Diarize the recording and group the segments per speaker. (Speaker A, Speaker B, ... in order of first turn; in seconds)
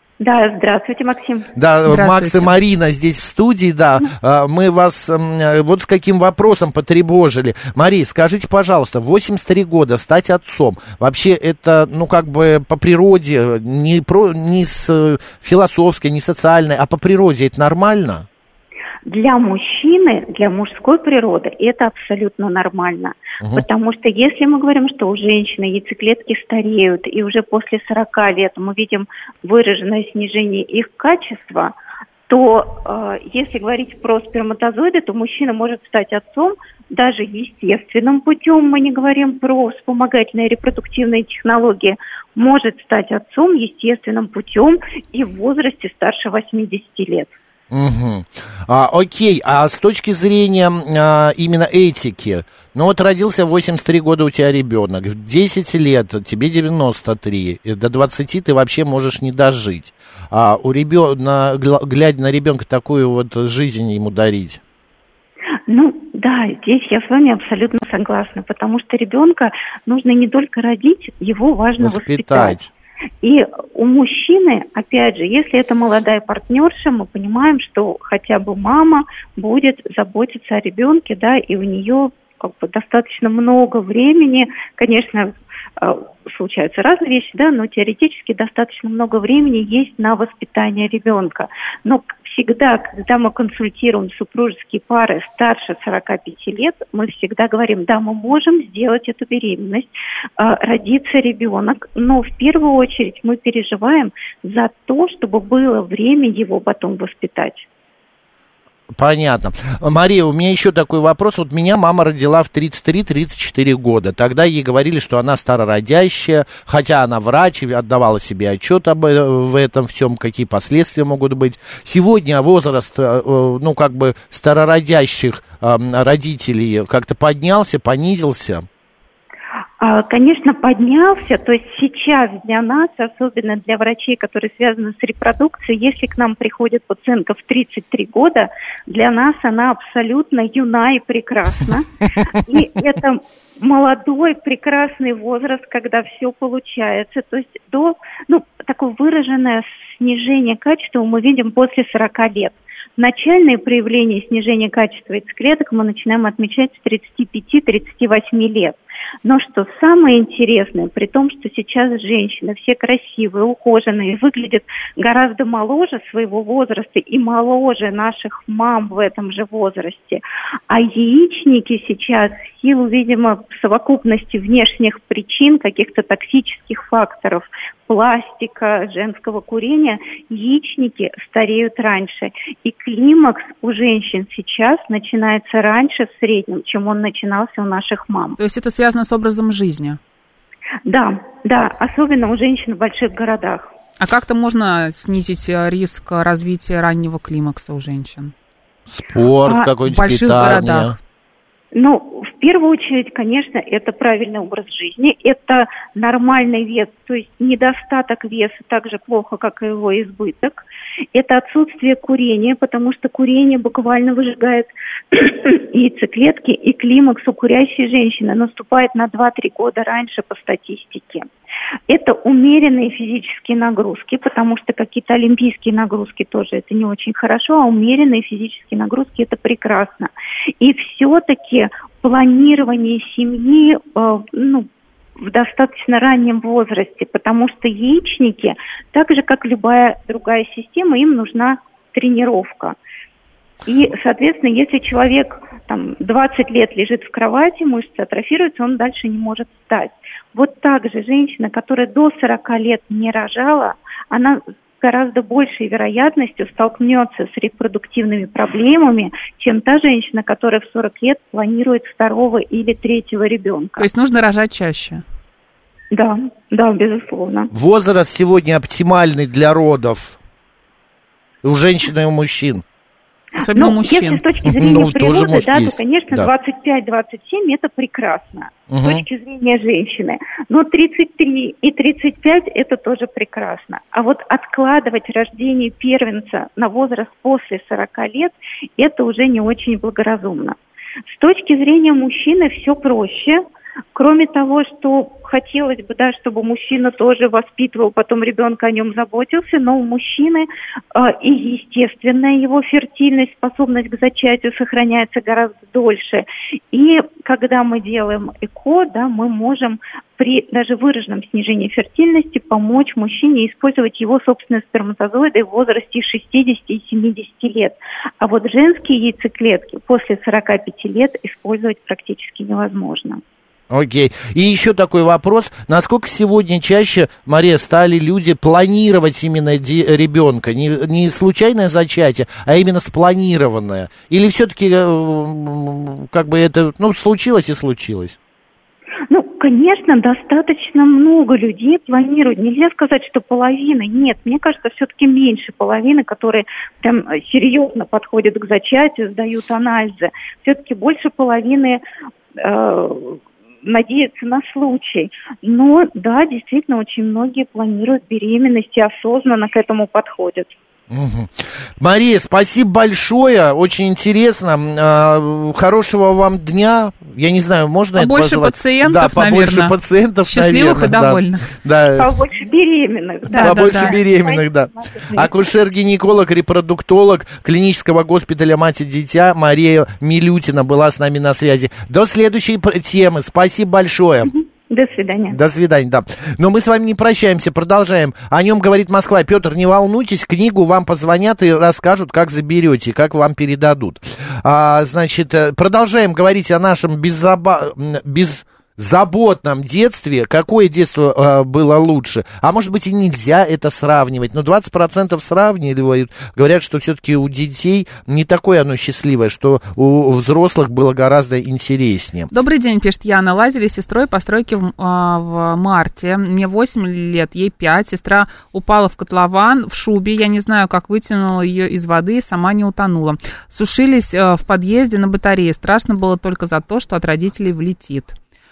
Speaker A: 0.2-1.5, 19.0-31.7, 32.3-47.3, 65.7-72.7, 73.2-107.7, 129.8-188.4, 190.8-193.7, 199.4-199.7, 201.7-221.3, 221.9-234.7, 235.2-242.8, 243.7-263.9, 265.9-267.5, 273.4-290.6, 291.1-293.4, 293.9-323.2, 339.1-351.8, 352.4-360.5, 371.9-375.4, 384.2-385.4
Speaker B: 1.5-18.2, 23.4-23.6, 47.7-64.6, 71.8-72.7, 108.9-128.7, 198.9-201.0, 267.5-270.2, 271.4-272.6, 274.4-276.3, 278.7-279.0, 323.7-338.1, 360.9-372.1, 373.3-384.3, 385.3-412.3
Speaker C: 1.9-2.5, 188.4-190.0, 194.0-198.3, 199.8-200.9, 263.8-265.0, 273.4-274.2, 368.0-371.4, 373.3-374.0, 412.3-428.1